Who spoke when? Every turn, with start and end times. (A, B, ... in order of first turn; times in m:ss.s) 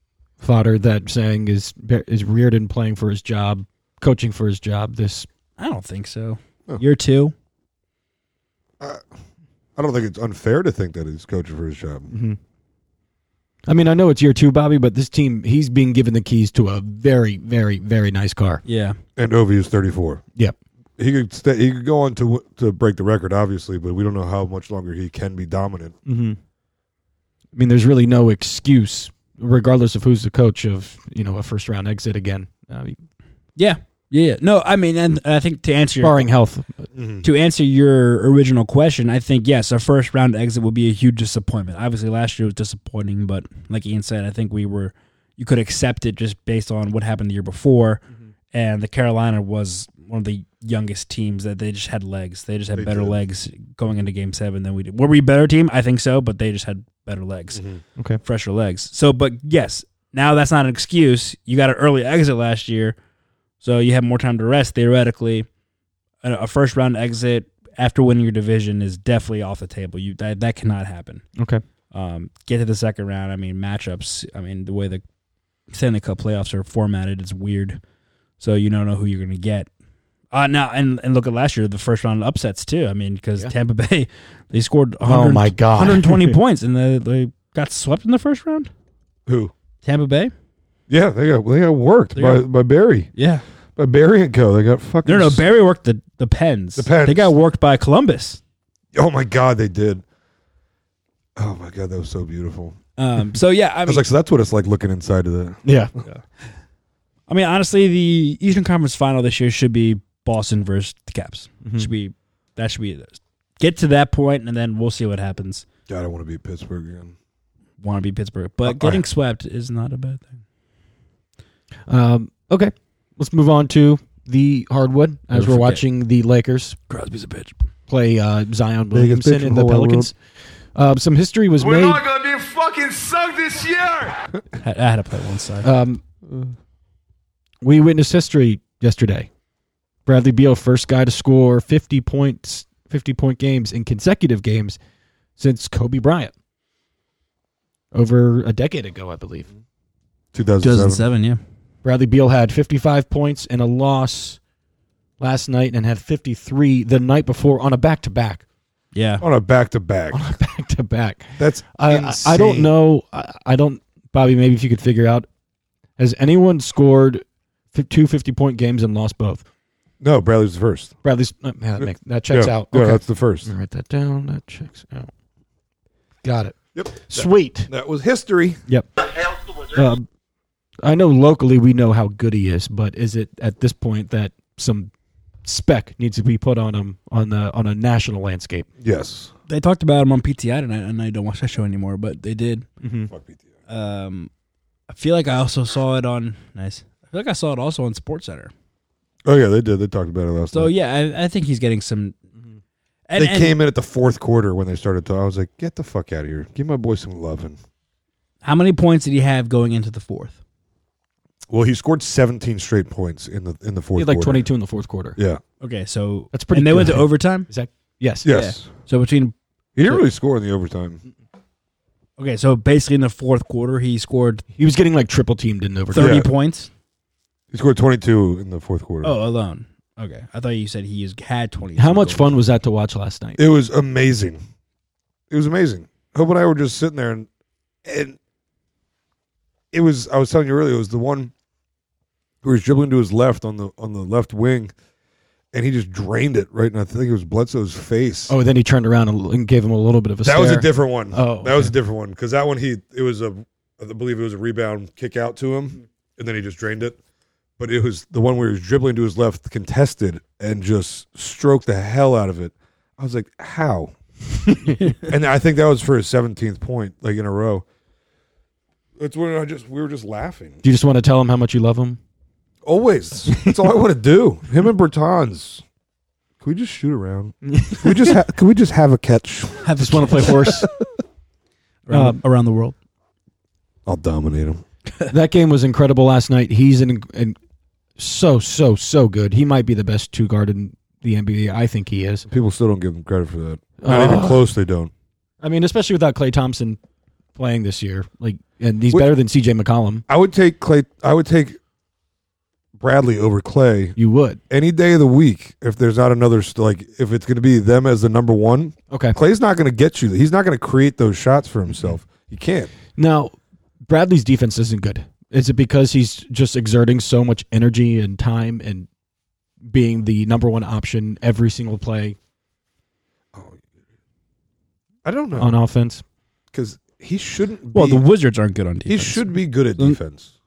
0:00.4-0:05.3 A
0:05.6-0:07.3 B
0:08.8-0:09.1 C
0:09.8-0:12.1 C
0:12.1-0:12.4 A
0:13.6-0:18.6 A
0:18.6-0:19.0 B
0:19.2-0:20.2 C
0:21.0-0:26.0 C
0:26.0-0:26.4 A
0:27.5-0:33.0 A
0:33.6-0:36.2 B
0:36.0-0:36.9 A
0:36.9-0:37.2 C
0:37.2-0:48.0 B
0:48.5-0:57.6 B
0:52.8-0:53.2 C
0:57.5-0:57.8 C
0:58.2-1:03.0 B
1:03.6-1:05.5 B
1:06.2-1:11.2 B
1:11.4-1:11.6 A
1:11.9-1:15.0 B
1:15.7-1:17.8 B
1:18.4-1:19.7 B
1:20.3-1:28.7 B
1:25.0-1:26.4 A
1:29.3-1:29.5 C
1:29.8-1:30.3 B
1:30.9-1:33.1 C
1:32.1-1:32.4 B
1:33.1-1:33.4 B
1:33.8-1:35.4 C
1:35.0-1:38.4 B
1:36.8-1:37.3 C
1:38.9-1:40.0 C
1:41.4-1:42.8 C
1:43.0-1:44.0 B
1:43.8-1:45.6 C
1:45.6-1:45.9 A
1:47.3-1:55.6 B
1:51.6-1:51.9 A
1:55.9-1:57.1 C
1:57.8-2:00.4 B
1:58.6-1:59.0 C
2:01.9-2:06.8 A
2:05.3-2:05.8 B
2:06.9-2:07.5 B
2:07.9-2:10.2 A
2:08.9-2:10.1 C
2:10.7-2:12.0 A
2:11.6-2:14.2 D
2:14.6-2:15.7 B
2:15.6-2:16.0 A
2:17.6-2:19.3 A
2:20.0-2:24.8 A
2:25.4-2:26.3 A
2:27.9-2:29.5 A
2:30.3-2:31.0 C
2:30.6-2:31.4 B
2:31.8-2:34.4 A
2:35.2-2:38.4 A
2:38.9-2:39.2 B
2:39.2-2:40.2 C
2:40.1-2:45.3 A
2:41.4-2:42.7 C
2:46.0-2:49.4 A
2:50.0-2:50.9 C
2:51.0-2:55.1 A
2:52.3-2:53.5 C
2:56.2-2:57.7 A
2:56.8-2:58.6 C
2:58.7-3:00.0 A
3:00.8-3:04.9 A
3:05.4-3:08.7 A
3:08.8-3:09.3 C
3:09.5-3:12.7 B
3:12.8-3:13.1 A
3:13.1-3:13.4 C
3:13.7-3:14.3 B
3:14.9-3:18.5 B
3:19.2-3:20.7 C
3:20.5-3:22.2 B
3:23.1-3:23.5 B
3:23.2-3:27.6 C
3:28.4-3:30.4 B
3:31.5-3:34.5 C
3:33.9-3:35.2 A
3:35.2-3:35.4 C
3:35.6-3:37.5 B
3:36.3-3:38.3 A
3:38.2-3:38.7 C
3:38.2-3:39.3 B
3:39.7-3:41.0 C
3:42.2-3:44.4 B
3:44.5-3:46.2 A
3:45.9-3:46.7 B
3:45.9-3:46.3 C
3:47.5-3:49.1 C
3:49.0-3:52.4 B
3:51.8-3:53.4 A
3:53.4-3:54.4 C
3:55.3-3:57.3 C
3:57.8-3:58.2 C
3:59.7-4:01.3 C
4:02.4-4:04.7 C
4:05.5-4:08.3 C
4:08.3-4:11.7 A
4:10.2-4:17.0 C
4:17.6-4:23.9 C
4:25.0-4:27.6 C
4:29.0-4:30.6 C
4:30.6-4:32.0 A
4:32.6-4:35.6 C
4:36.4-4:40.6 C
4:37.4-4:38.2 A
4:39.6-4:40.6 B
4:39.8-4:40.7 A
4:41.9-4:42.7 B
4:41.9-4:42.2 A
4:43.8-4:44.6 C
4:45.1-4:47.4 A
4:48.0-4:52.3 A
4:52.3-4:54.9 C
4:53.8-4:54.5 A
4:55.4-4:56.8 A
4:57.4-5:00.0 A
5:00.1-5:01.6 C
5:02.8-5:04.0 C
5:04.0-5:04.4 A
5:04.5-5:12.7 C
5:08.9-5:09.2 A
5:12.9-5:18.9 A
5:19.6-5:22.2 A
5:25.0-5:25.6 C
5:25.3-5:26.0 A
5:26.5-5:28.0 C
5:27.7-5:30.0 B
5:28.9-5:30.3 C